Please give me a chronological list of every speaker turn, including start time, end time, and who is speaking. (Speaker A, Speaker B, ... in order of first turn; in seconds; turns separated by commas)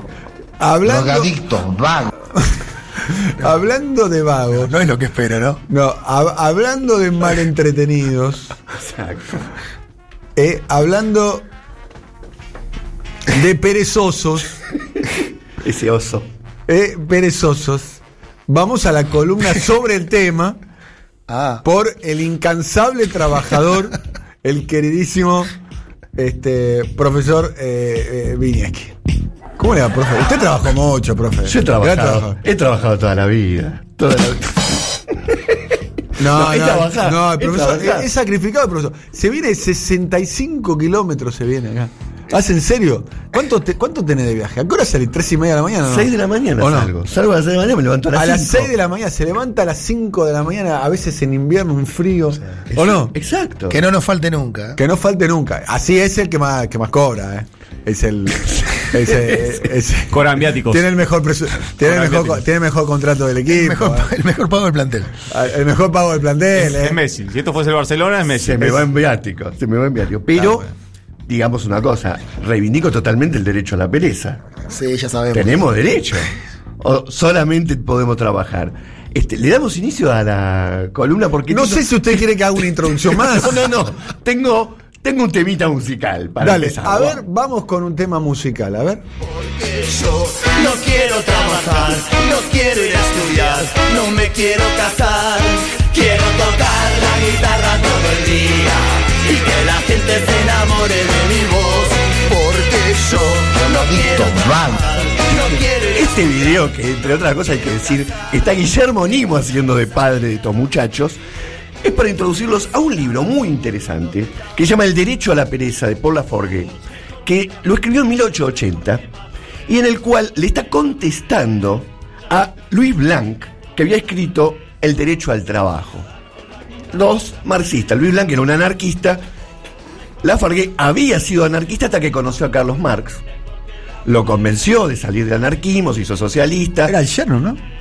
Speaker A: 0.6-1.4, Speaker B: 0.9-2.1, Speaker A: 3.2-4.7, Speaker C: 4.6-5.6, Speaker A: 5.7-8.5, Speaker D: 8.8-9.5, Speaker A: 10.3-11.4, Speaker A: 13.3-14.5, Speaker D: 15.6-16.3, Speaker A: 16.7-20.6, Speaker C: 21.3-21.6, Speaker A: 21.6-25.5, Speaker A: 26.1-28.9, Speaker A: 29.6-32.4, Speaker D: 31.4-38.1, Speaker A: 36.2-46.9, Speaker D: 45.8-48.7, Speaker A: 48.1-53.1, Speaker D: 52.7-53.8, Speaker C: 53.7-54.8, Speaker A: 54.8-64.1, Speaker D: 58.9-59.6, Speaker E: 60.1-60.9, Speaker E: 61.8-62.4, Speaker C: 63.5-65.1, Speaker A: 65.3-67.0, Speaker E: 66.5-68.8, Speaker D: 68.3-70.7, Speaker D: 71.3-74.4, Speaker C: 74.7-75.6, Speaker D: 75.3-87.2, Speaker A: 81.5-83.7, Speaker A: 86.4-89.0, Speaker F: 89.5-104.2, Speaker D: 92.8-93.8, Speaker D: 96.3-97.3, Speaker D: 100.5-101.2, Speaker B: 103.8-104.9, Speaker F: 104.9-105.9, Speaker D: 105.6-111.2, Speaker D: 111.8-116.7, Speaker D: 117.2-119.0, Speaker D: 119.7-126.1, Speaker D: 126.9-129.2, Speaker D: 130.2-133.2, Speaker D: 134.0-136.9, Speaker A: 136.8-137.6